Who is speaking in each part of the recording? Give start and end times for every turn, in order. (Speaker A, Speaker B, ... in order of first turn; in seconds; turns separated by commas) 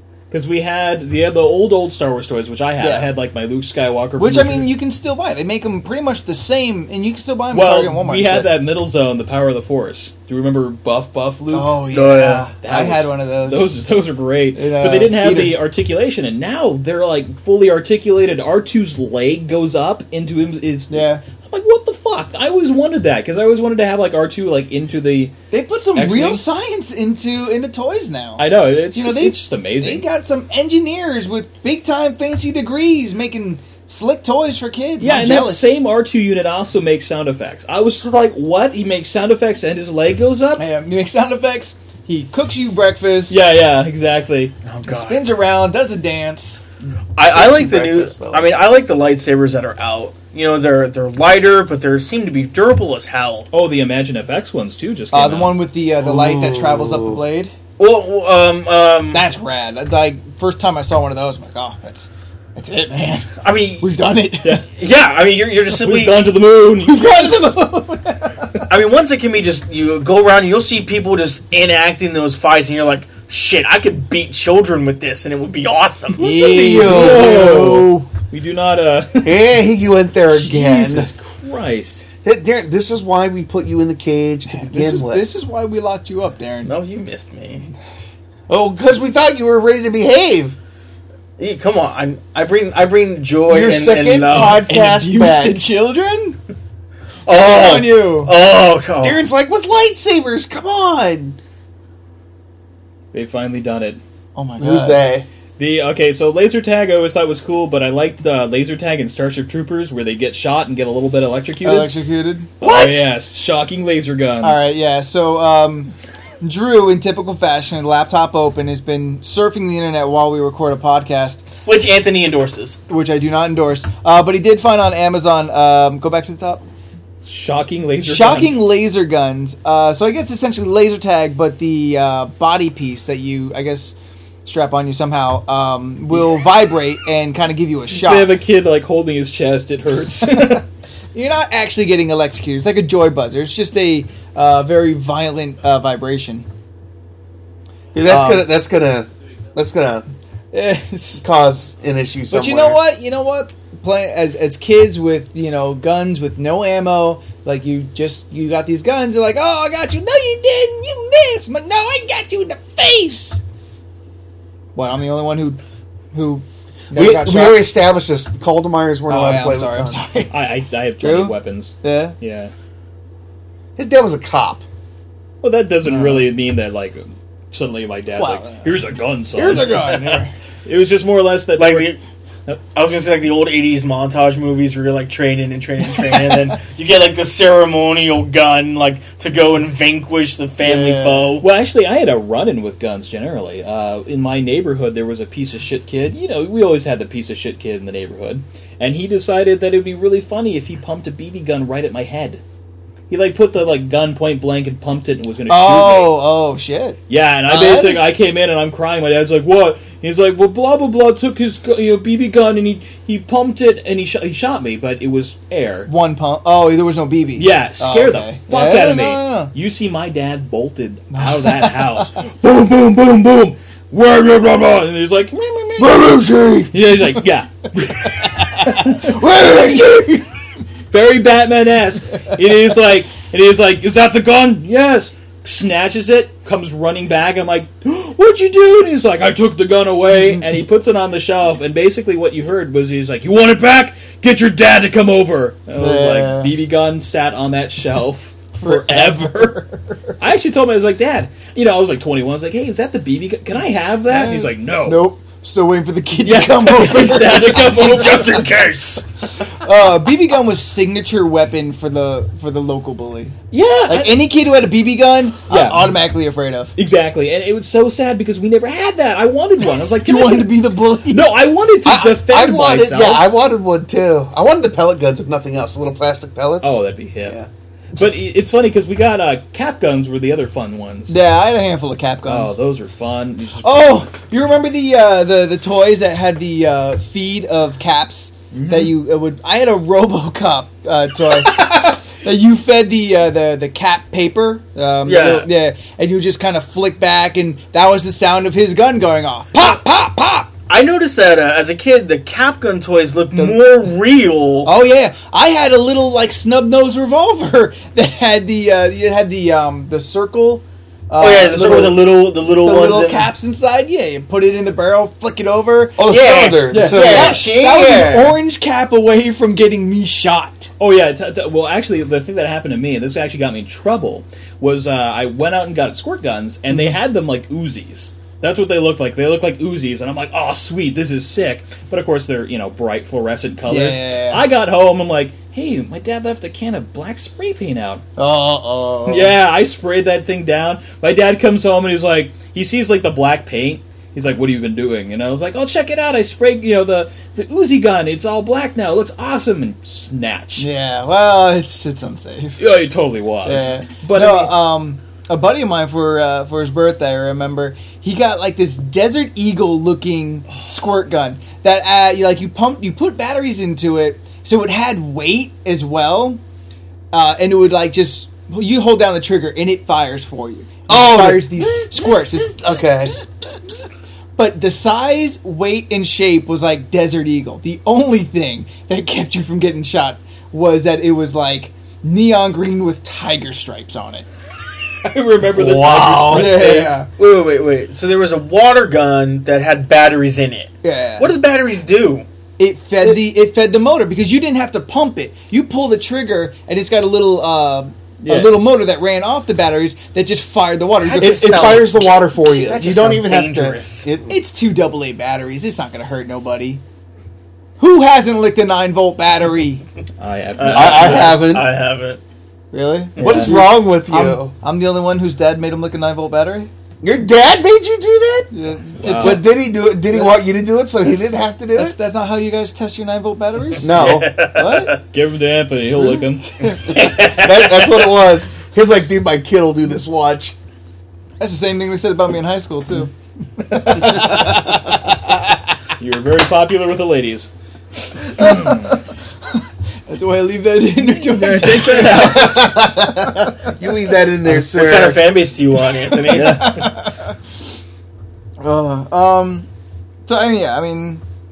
Speaker A: 0.3-4.7, Speaker B: 2.8-3.1, Speaker B: 4.2-8.6, Speaker A: 7.5-11.8, Speaker B: 11.5-13.7, Speaker C: 11.9-12.5, Speaker A: 12.6-25.3, Speaker B: 14.5-15.6, Speaker B: 20.9-21.2, Speaker B: 25.5-35.8, Speaker A: 25.9-26.4, Speaker A: 28.4-30.0, Speaker A: 35.0-40.6, Speaker B: 40.6-43.4, Speaker A: 43.3-44.5, Speaker C: 44.6-45.2, Speaker B: 44.9-46.6, Speaker C: 47.1-53.5, Speaker D: 47.2-48.6, Speaker A: 53.5-55.6, Speaker B: 55.1-57.5, Speaker D: 56.0-57.2, Speaker C: 57.8-59.2, Speaker B: 59.1-64.6, Speaker C: 63.4-63.9, Speaker C: 64.7-66.3, Speaker A: 65.7-67.6, Speaker B: 66.8-68.6, Speaker C: 68.7-76.3, Speaker B: 76.2-78.1, Speaker D: 76.2-77.5, Speaker A: 76.8-79.6, Speaker D: 79.2-81.1, Speaker A: 80.3-82.0, Speaker D: 82.2-85.2, Speaker B: 84.5-86.7, Speaker C: 86.6-87.7, Speaker D: 88.5-90.5, Speaker C: 91.4-94.7, Speaker D: 93.5-95.6, Speaker B: 94.4-96.4, Speaker C: 97.2-99.2, Speaker B: 97.3-98.3, Speaker D: 99.0-101.4, Speaker A: 103.1-104.0, Speaker B: 104.3-105.1, Speaker D: 104.6-105.2, Speaker A: 105.6-111.9, Speaker B: 111.6-113.0, Speaker A: 112.6-114.7, Speaker B: 114.4-121.5, Speaker C: 121.7-122.8, Speaker B: 122.9-126.6, Speaker A: 127.2-128.6, Speaker B: 128.0-138.3, Speaker A: 137.9-140.6, Speaker B: 140.3-140.6, Speaker B: 141.1-146.4, Speaker D: 147.9-150.0, Speaker B: 148.1-148.5, Speaker B: 150.5-151.2, Speaker D: 151.2-152.8, Speaker B: 152.3-163.4, Speaker B: 164.7-165.6, Speaker B: 166.1-167.7, Speaker D: 166.9-170.1, Speaker B: 169.1-170.5, Speaker A: 170.3-172.5, Speaker B: 171.0-172.2, Speaker D: 173.8-174.6, Speaker A: 175.4-179.9, Speaker B: 175.8-176.3, Speaker B: 178.2-178.7, Speaker B: 179.3-180.3, Speaker C: 179.5-180.2, Speaker A: 180.7-181.9, Speaker C: 181.5-182.0, Speaker C: 182.7-191.5, Speaker B: 190.6-191.3, Speaker A: 191.4-202.4, Speaker A: 203.1-206.2, Speaker B: 205.5-208.1, Speaker A: 207.1-215.9, Speaker B: 215.9-219.5, Speaker A: 217.3-226.1, Speaker B: 221.1-222.1, Speaker B: 225.8-227.2, Speaker A: 226.7-229.7, Speaker B: 228.2-230.2, Speaker A: 230.9-249.6, Speaker B: 245.7-246.5, Speaker B: 248.6-250.2, Speaker A: 250.2-255.0, Speaker B: 254.1-257.8, Speaker A: 256.2-258.7, Speaker C: 257.5-259.0, Speaker B: 259.6-263.3, Speaker A: 263.5-264.2, Speaker B: 263.9-266.7, Speaker A: 265.5-265.9, Speaker A: 266.8-273.3, Speaker B: 269.8-271.4, Speaker D: 271.8-277.5, Speaker A: 276.6-277.4, Speaker A: 277.9-281.2, Speaker B: 281.1-282.6, Speaker A: 282.2-284.0, Speaker B: 283.6-300.5, Speaker A: 288.5-288.9, Speaker C: 295.0-295.5, Speaker C: 300.7-304.7, Speaker B: 303.3-303.6, Speaker B: 304.6-312.0, Speaker C: 311.2-313.3, Speaker B: 312.6-320.7, Speaker D: 312.7-313.0, Speaker D: 316.0-317.4, Speaker C: 316.1-318.4, Speaker A: 320.8-338.0, Speaker B: 326.7-327.0, Speaker B: 333.7-334.4, Speaker B: 338.2-339.4, Speaker A: 339.1-350.7, Speaker B: 350.6-352.6, Speaker A: 352.6-354.5, Speaker B: 353.4-366.4, Speaker B: 367.1-384.2, Speaker D: 370.9-373.2, Speaker A: 385.0-387.0, Speaker D: 385.5-386.7, Speaker B: 386.3-387.1, Speaker C: 387.1-392.2, Speaker B: 390.8-391.3, Speaker B: 392.6-401.9, Speaker A: 398.2-398.6, Speaker C: 401.0-404.1, Speaker D: 401.2-404.4, Speaker B: 404.3-406.8, Speaker B: 407.8-409.8, Speaker A: 410.2-411.4, Speaker C: 410.6-412.2, Speaker D: 410.7-411.7, Speaker B: 412.7-416.7, Speaker D: 413.2-414.5, Speaker A: 413.2-413.6, Speaker D: 417.0-421.9, Speaker B: 418.5-419.5, Speaker A: 419.0-419.4, Speaker B: 420.1-420.4, Speaker B: 421.7-425.0, Speaker D: 423.8-424.3, Speaker C: 423.9-425.0, Speaker A: 425.0-426.7, Speaker B: 426.0-427.0, Speaker C: 426.9-428.1, Speaker D: 426.9-430.5, Speaker B: 431.4-434.9, Speaker A: 433.7-434.5, Speaker D: 434.1-434.7, Speaker A: 436.0-437.5, Speaker A: 438.3-439.0, Speaker B: 438.3-439.0, Speaker B: 439.5-443.5, Speaker A: 441.0-442.6, Speaker D: 441.8-445.4, Speaker C: 444.4-446.9, Speaker B: 446.3-447.3, Speaker A: 446.3-446.9, Speaker B: 448.6-449.7, Speaker B: 450.2-451.2